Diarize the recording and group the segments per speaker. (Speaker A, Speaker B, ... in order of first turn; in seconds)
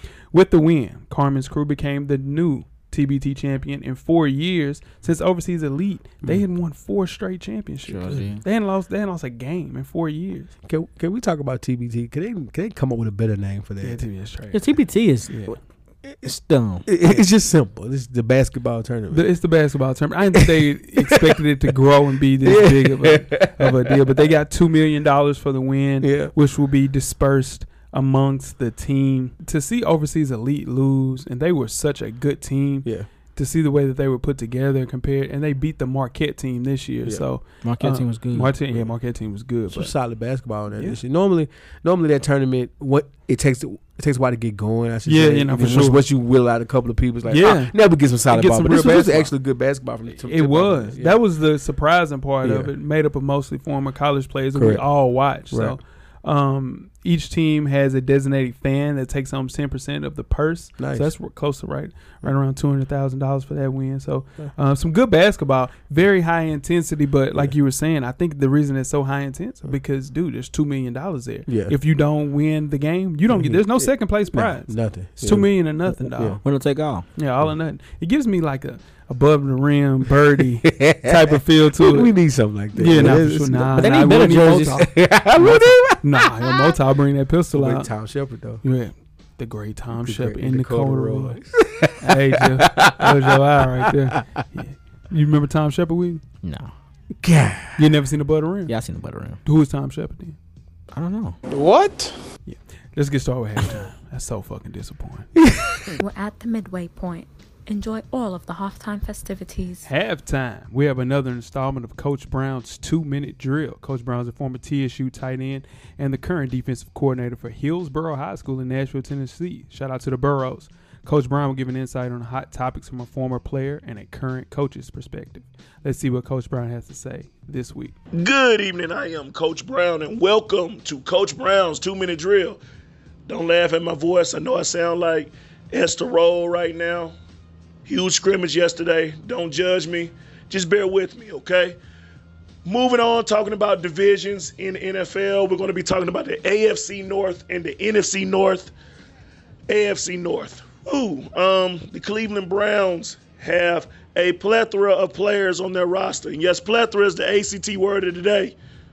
Speaker A: 0.3-10.5, 13.8-14.6, 19.1-39.9, 45.1-46.0, 47.3-47.8, 48.3-49.3, 50.3-76.4, 77.2-82.1, 82.8-87.9, 88.6-91.4, 92.0-96.2, 97.8-98.7, 99.5-100.4, 102.5-105.3, 109.8-127.9
Speaker B: 7.9-8.4, 14.5-15.5, 16.2-16.9, 37.6-38.5, 76.4-77.1, 83.8-85.6, 96.4-96.7, 98.7-99.4, 100.9-101.4
Speaker C: 10.7-14.1, 16.9-19.3, 20.4-21.4, 22.4-24.1, 26.0-26.3, 39.7-51.2, 52.4-52.7, 54.5-54.8, 55.5-55.8, 60.8-61.1, 71.5-71.8, 73.3-75.5, 76.1-76.4, 80.4-86.7, 87.5-88.6, 90.0-94.4, 97.2-97.9, 101.5-102.2, 105.4-106.0
Speaker D: 106.0-109.9
Speaker E: 128.1-132.6, 133.3-137.1, 137.8-141.8, 142.6-148.7, 149.7-158.6